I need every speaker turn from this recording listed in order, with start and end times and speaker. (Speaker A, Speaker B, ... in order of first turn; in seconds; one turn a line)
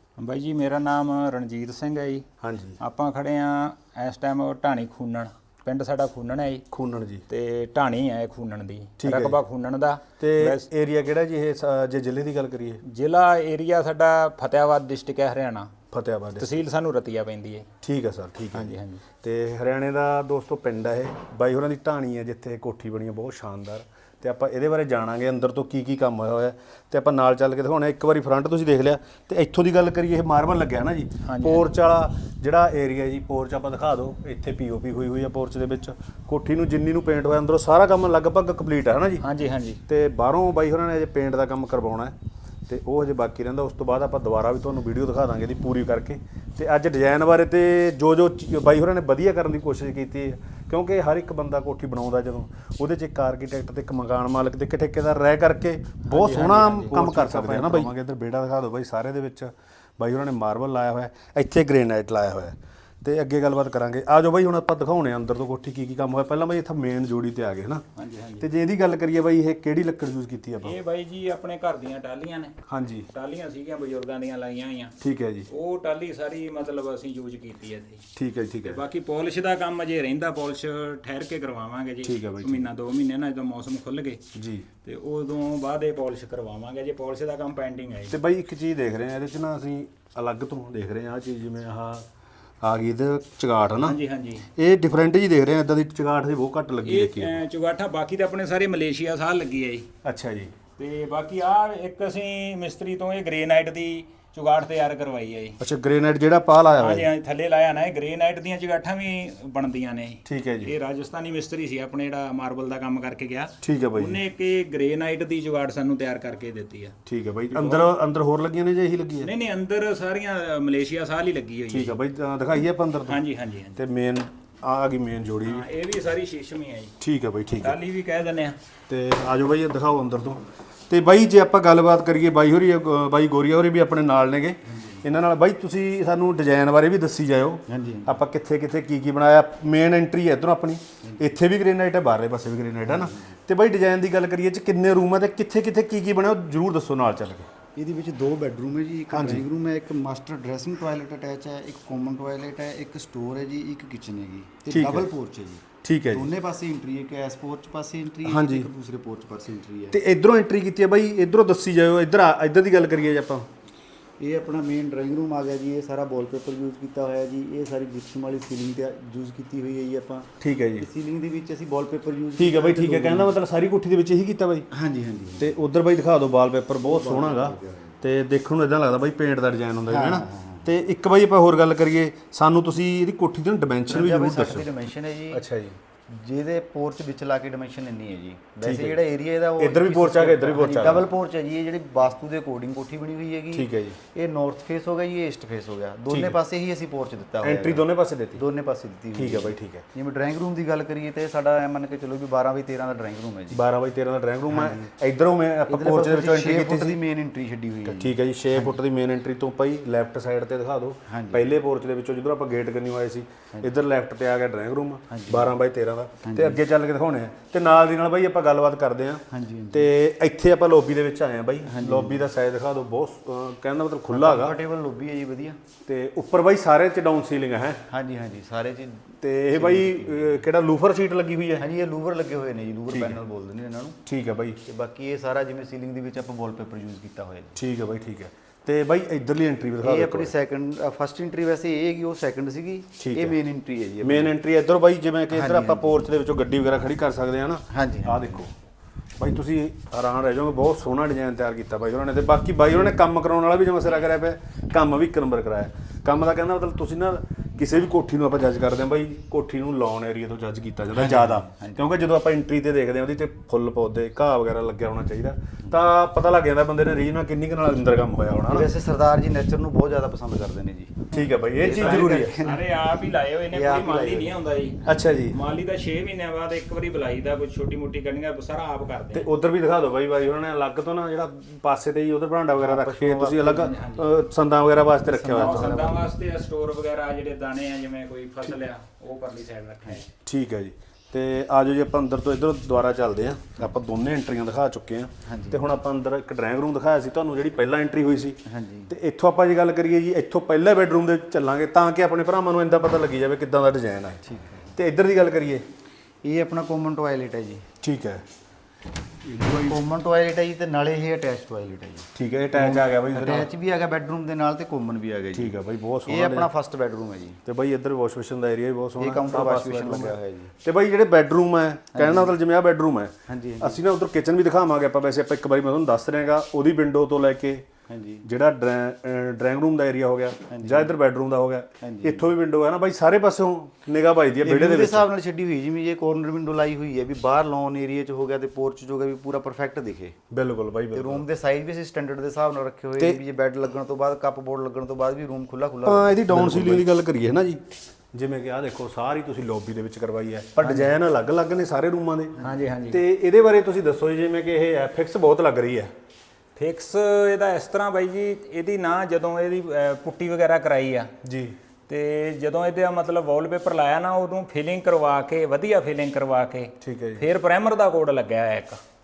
Speaker A: 0.2-2.2
Speaker B: 2.4-2.8
Speaker A: 2.8-6.6
Speaker B: 6.7-7.2
Speaker A: 7.3-10.6
Speaker B: 9.0-9.4
Speaker B: 10.2-12.8
Speaker A: 12.8-15.7
Speaker B: 15.9-16.6
Speaker A: 16.4-17.7
Speaker B: 17.8-39.2
Speaker A: 18.5-19.0
Speaker A: 31.2-31.7
Speaker A: 39.2-39.8
Speaker B: 39.9-42.1
Speaker B: 42.7-67.8
Speaker A: 56.0-57.9
Speaker A: 68.0-68.5
Speaker B: 68.4-70.8
Speaker A: 70.6-72.5
Speaker B: 72.7-73.1
Speaker A: 73.1-75.0
Speaker B: 75.0-75.5
Speaker A: 75.5-78.0
Speaker B: 78.2-78.8
Speaker A: 78.6-84.2
Speaker B: 82.0-82.7
Speaker B: 84.3-84.7
Speaker A: 84.8-88.2
Speaker B: 88.1-92.1
Speaker B: 92.6-94.0
Speaker A: 93.8-94.5
Speaker B: 94.5-97.4
Speaker A: 96.8-99.9
Speaker B: 100.0-100.5
Speaker A: 100.8-105.6
Speaker B: 105.6-107.1
Speaker A: 106.8-116.9
Speaker B: 110.2-110.7
Speaker B: 113.6-114.2
Speaker B: 117.0-119.3
Speaker A: 117.5-117.9
Speaker A: 119.2-121.9
Speaker B: 121.7-123.2
Speaker A: 123.1-123.8
Speaker B: 123.8-125.7
Speaker A: 125.4-127.0
Speaker B: 127.0-127.8
Speaker A: 127.6-128.6
Speaker B: 128.9-147.5
Speaker C: 137.7-138.2
Speaker C: 142.9-143.3
Speaker C: 147.7-160.0
Speaker B: 149.1-149.4
Speaker B: 154.7-155.1
Speaker B: 155.8-156.3
Speaker B: 158.2-158.7
Speaker B: 159.9-163.5
Speaker C: 164.2-173.3
Speaker B: 170.4-170.9
Speaker B: 172.4-174.7
Speaker C: 174.7-175.6
Speaker B: 175.4-185.8
Speaker C: 176.8-177.9
Speaker C: 179.9-180.7
Speaker C: 183.9-185.4
Speaker C: 186.1-203.6
Speaker B: 188.6-189.0
Speaker B: 189.6-191.1
Speaker B: 193.5-194.0
Speaker B: 196.1-196.4
Speaker B: 197.4-198.4
Speaker B: 199.1-199.8
Speaker B: 203.5-207.0
Speaker C: 204.5-204.8
Speaker C: 205.7-208.8
Speaker B: 207.8-224.6
Speaker C: 211.1-211.4
Speaker C: 215.1-215.5
Speaker C: 216.2-216.6
Speaker C: 219.3-219.9
Speaker C: 221.7-222.2
Speaker C: 224.1-225.6
Speaker B: 225.8-227.8
Speaker C: 227.9-230.4
Speaker B: 229.2-231.7
Speaker C: 231.6-234.0
Speaker B: 232.9-233.2
Speaker B: 234.1-234.6
Speaker C: 234.6-237.5
Speaker B: 237.6-240.3
Speaker C: 239.8-244.3
Speaker B: 243.0-243.4
Speaker B: 244.0-248.5
Speaker C: 245.3-246.0
Speaker C: 247.7-248.4
Speaker B: 249.2-268.7
Speaker C: 261.0-261.8
Speaker C: 268.5-272.7
Speaker B: 271.1-272.4
Speaker A: 271.8-279.3
Speaker C: 273.5-274.4
Speaker B: 274.8-275.4
Speaker B: 279.1-285.9
Speaker C: 282.6-284.0
Speaker C: 285.1-286.0
Speaker A: 285.3-290.1
Speaker B: 290.2-305.6
Speaker C: 295.2-295.6
Speaker C: 298.5-298.9
Speaker C: 304.2-304.7
Speaker C: 306.2-307.7
Speaker B: 307.8-308.2
Speaker B: 309.2-309.8
Speaker C: 309.3-315.5
Speaker B: 312.1-313.5
Speaker B: 315.3-316.5
Speaker C: 316.1-317.4
Speaker B: 317.4-327.6
Speaker C: 319.0-320.5
Speaker C: 321.9-322.3
Speaker C: 323.3-323.8
Speaker C: 327.9-328.2
Speaker B: 328.2-335.1
Speaker C: 330.5-330.9
Speaker C: 331.8-332.3
Speaker C: 334.4-340.2
Speaker B: 340.3-341.2
Speaker C: 340.9-346.9
Speaker B: 345.8-352.4
Speaker A: 350.6-350.9
Speaker A: 352.4-353.0
Speaker B: 352.9-355.9
Speaker A: 356.6-361.1
Speaker B: 361.2-361.6
Speaker A: 361.9-368.8
Speaker B: 366.8-367.2